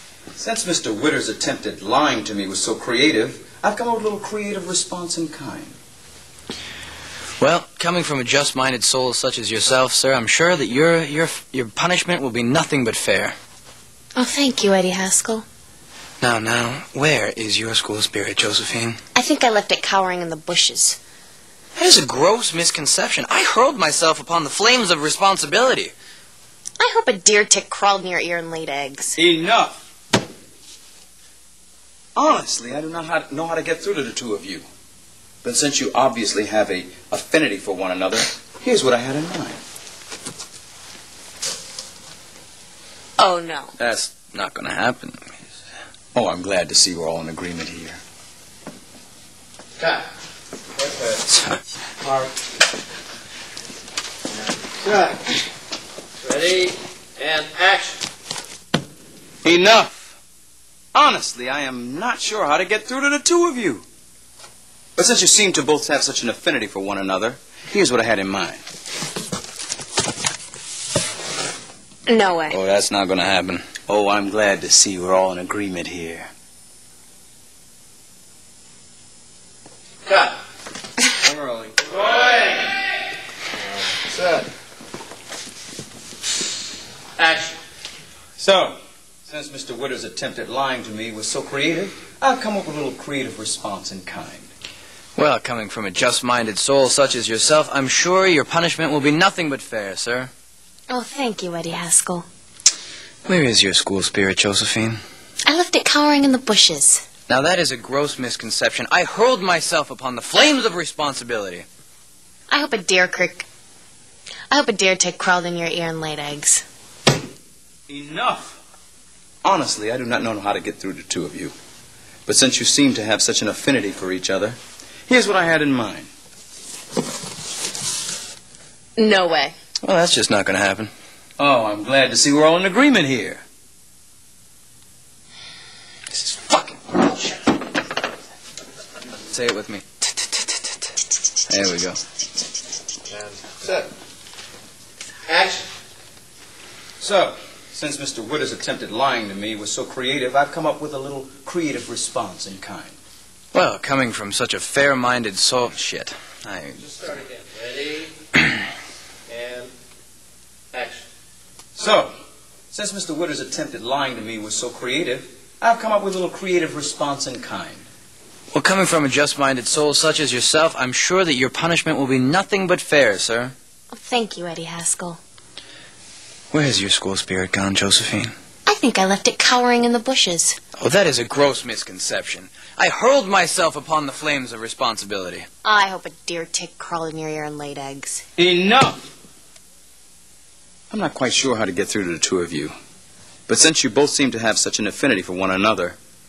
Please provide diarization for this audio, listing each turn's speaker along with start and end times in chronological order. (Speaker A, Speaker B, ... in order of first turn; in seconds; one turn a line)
Speaker A: 0.4-5.8
Speaker B: 7.4-13.4
Speaker C: 14.2-15.5
Speaker B: 16.2-19.0
Speaker C: 19.1-21.0
Speaker B: 21.8-25.9
Speaker C: 26.8-29.2
Speaker A: 29.2-29.8
Speaker A: 32.2-34.7
Speaker A: 35.4-39.6
Speaker C: 43.2-43.7
Speaker B: 43.8-45.4
Speaker A: 46.1-48.0
Speaker D: 49.8-50.0
Speaker D: 50.8-51.2
Speaker B: 51.3-51.6
Speaker D: 52.0-52.3
Speaker D: 54.6-55.4
Speaker D: 56.2-58.0
Speaker A: 59.4-60.2
Speaker A: 60.9-63.9
Speaker A: 65.0-68.6
Speaker C: 72.1-72.6
Speaker B: 72.5-73.7
Speaker A: 73.9-76.3
Speaker D: 80.1-80.3
Speaker D: 81.2-82.8
Speaker D: 83.8-84.5
Speaker D: 87.2-87.5
Speaker A: 88.4-94.5
Speaker B: 95.2-100.3
Speaker C: 100.9-102.3
Speaker B: 103.2-105.0
Speaker C: 105.5-107.0
Speaker B: 107.3-111.7
Speaker C: 112.5-113.5
Speaker C: 114.5-116.6
Speaker A: 117.9-118.6
Speaker A: 119.4-121.5
Speaker A: 122.3-126.1
Speaker C: 129.0-129.5
Speaker B: 129.8-130.9
Speaker A: 131.4-133.4
Speaker B: 136.1-137.3
Speaker B: 139.3-140.9
Speaker B: 141.5-142.0
Speaker D: 143.1-143.9
Speaker D: 145.3-145.7
Speaker A: 147.0-153.0
Speaker B: 153.5-156.9
Speaker D: 156.8-158.1
Speaker D: 159.3-159.7
Speaker D: 160.7-161.0
Speaker A: 161.8-162.1
Speaker A: 162.7-167.9
Speaker B: 168.5-173.5
Speaker C: 173.9-175.2
Speaker B: 176.5-178.3
Speaker C: 178.7-180.6
Speaker B: 180.8-185.5
Speaker C: 185.6-188.2
Speaker A: 188.4-189.0
Speaker A: 190.9-192.8
Speaker A: 193.5-196.0